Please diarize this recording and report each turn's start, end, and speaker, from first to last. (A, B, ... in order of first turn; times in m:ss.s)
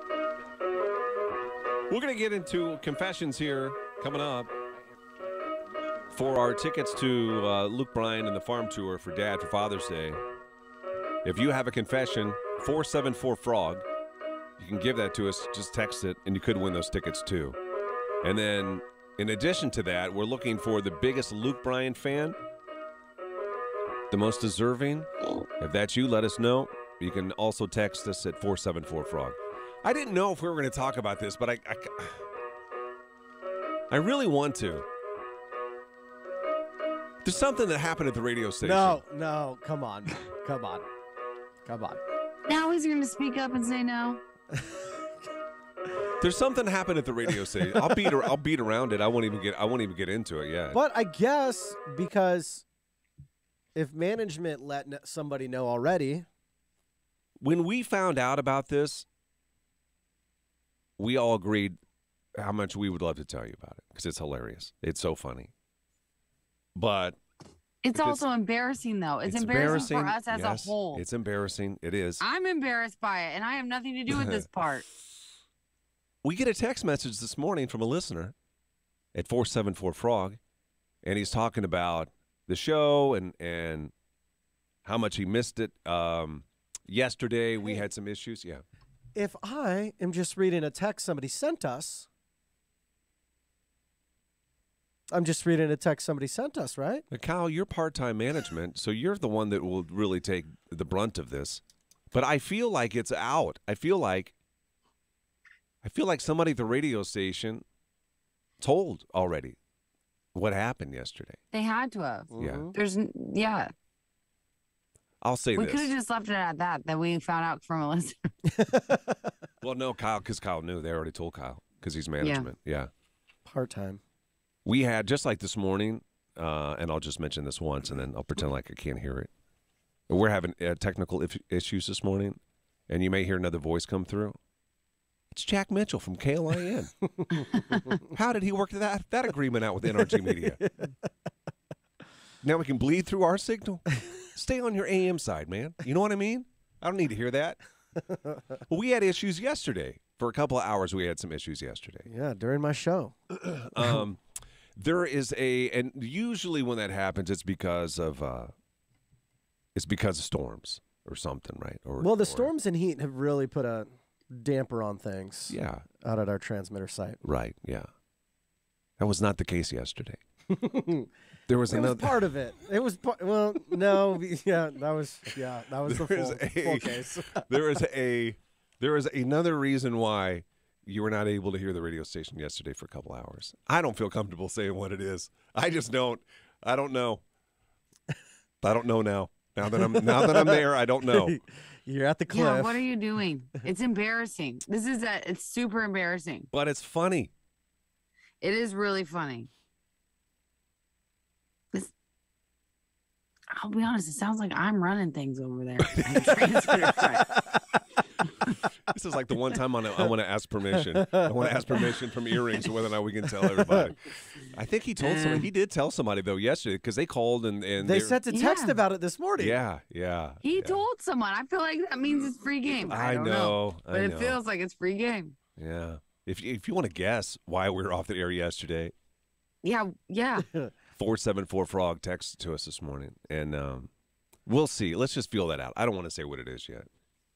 0:01.9-0:04.5 A
0:06.1-0:10.2 A
0:11.2-0:13.8 A
0:14.6-0:17.6 A
0:18.2-0:22.4 A
0:24.1-0:32.2 A
0:33.9-0:34.9 A
0:37.2-0:39.0 A
0:38.6-0:40.9 B
0:41.6-0:42.0 B
0:42.5-0:44.2 C
0:44.5-0:44.9 B
0:46.2-0:50.8 A
0:47.4-0:48.3 B
0:50.7-0:52.7 B
0:53.8-0:56.3 B
0:57.4-0:59.1 A
1:01.0-1:01.8 A
1:02.4-1:05.5 A
1:06.8-1:07.2 A
1:07.8-1:11.0 C
1:07.9-1:08.2 A
1:09.3-1:12.2 A
1:12.2-1:14.8 C
1:14.1-1:14.4 A
1:16.2-1:18.4 A
1:19.2-1:20.4 A
1:21.0-1:23.9 A
1:24.8-1:28.6 A
1:29.2-1:32.1 B
1:35.1-1:37.1 B
1:37.1-1:41.6 A
1:42.1-1:44.3 A
1:45.8-1:47.6 A
1:48.6-1:49.6 A
1:50.3-1:51.4 A
1:51.5-1:53.7 C
1:52.3-1:52.8 B
1:52.4-1:52.7 A
1:55.2-1:55.9 A
1:55.6-1:58.3 C
1:58.5-1:59.3 B
1:59.6-2:02.9 A
2:02.2-2:02.5 C
2:03.4-2:04.0 B
2:04.6-2:09.3 A
2:10.1-2:14.4 A
2:15.3-2:16.9 A
2:17.1-2:17.9 B
2:18.0-2:20.6 A
2:19.9-2:20.9 B
2:22.4-2:27.6 A
2:28.0-2:28.6 B
2:28.7-2:32.1 A
2:32.1-2:33.2 B
2:33.3-2:34.2 A
2:34.8-2:38.5 A
2:39.8-2:42.5 A
2:42.0-2:47.2 B
2:45.5-2:45.8 A
2:47.2-2:47.9 A
2:49.0-2:50.2 A
2:50.5-2:51.1 B
2:51.5-2:52.2 A
2:51.7-2:57.8 B
2:55.8-3:07.2 A
3:08.6-3:11.4 A
3:09.7-3:12.9 B
3:12.3-3:16.5 C
3:16.5-3:17.3 A
3:18.4-3:19.5 C
3:23.5-3:27.2 C
3:25.8-3:27.1 A
3:28.9-3:38.2 A
3:30.8-3:31.9 B
3:33.4-3:33.9 B
3:35.0-3:35.5 C
3:37.8-3:39.6 B
3:38.3-3:38.8 C
3:39.4-3:40.8 A
3:40.4-3:45.4 C
3:42.8-3:44.4 A
3:45.6-3:48.9 A
3:49.6-3:50.5 C
3:50.5-3:50.7 B
3:51.0-3:53.9 A
3:54.5-3:56.9 A